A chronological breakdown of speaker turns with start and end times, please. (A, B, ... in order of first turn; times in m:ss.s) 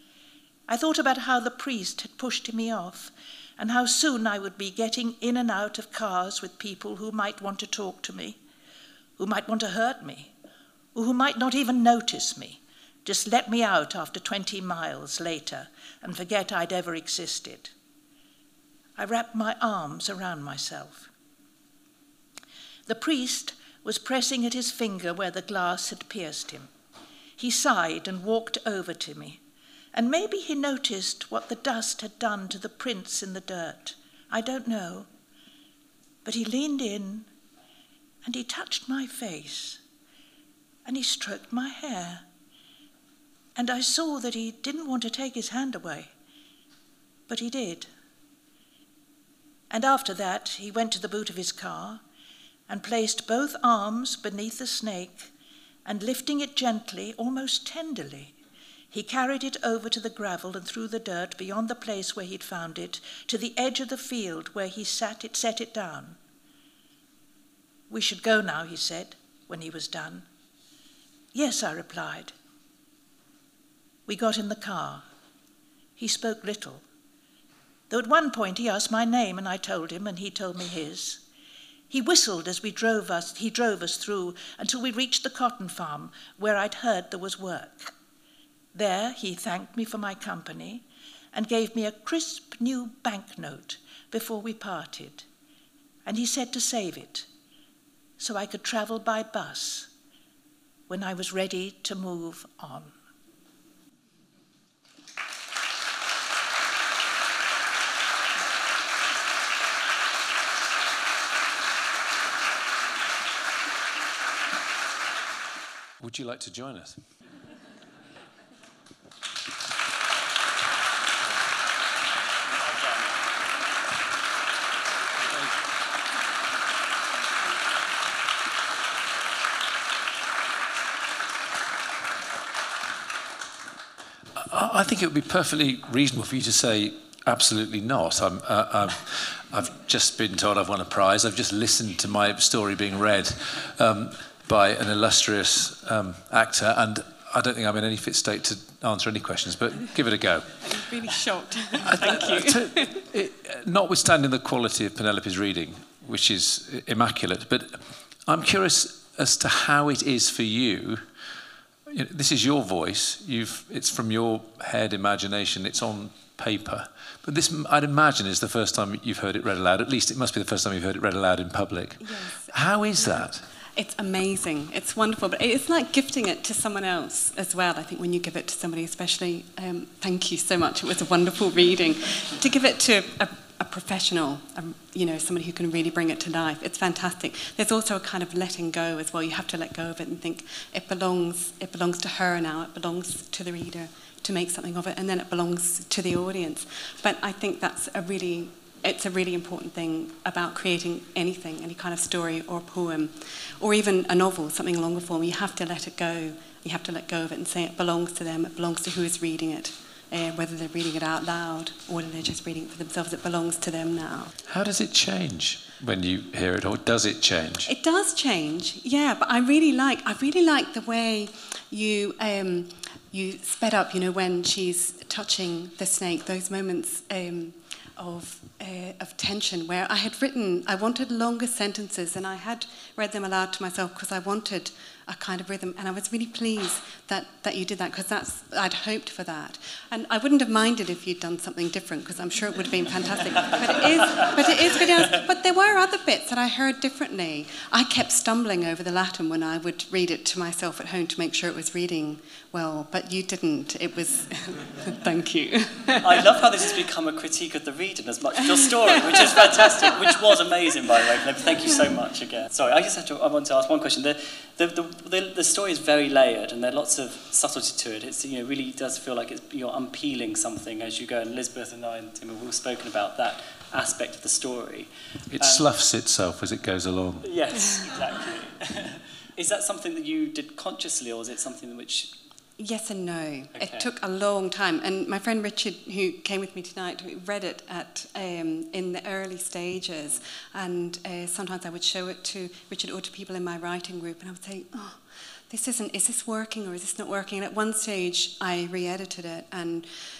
0:00.7-0:08.4 A
0:09.2-0:10.3 A
0:11.0-0:17.7 A
0:19.0-0:21.1 A
0:22.9-0:26.7 A
0:27.4-0:29.4 A
0:29.9-0:35.1 A
0:36.2-0:37.3 A
0:38.2-0:39.8 A
0:40.9-0:42.3 A
0:43.6-0:46.1 A
0:47.3-0:47.9 A
0:49.7-0:52.0 A
0:52.7-0:55.3 A
0:55.8-0:58.4 A
0:58.9-1:06.2 A
1:07.9-1:10.3 A
1:11.3-1:12.3 A
1:14.1-1:15.0 A
1:16.0-1:16.8 A
1:17.9-1:21.2 A
1:21.9-1:27.9 A
1:28.7-1:35.3 A
1:36.1-1:37.3 A
1:38.2-1:39.9 A
1:40.9-1:42.9 A
1:56.0-1:57.0 B
2:02.6-2:03.1 C
2:14.4-2:31.1 B
2:30.6-2:33.1 D
2:31.8-2:41.0 B
2:41.9-2:53.4 B
2:52.0-3:34.3 D
3:34.5-3:37.7 B
3:37.6-4:16.5 D
4:04.1-4:04.9 C
4:16.0-4:35.7 C
4:18.4-4:20.2 D
4:35.3-4:37.3 B
4:37.2-4:42.1 C
4:42.6-4:59.9 D
4:43.5-4:43.9 C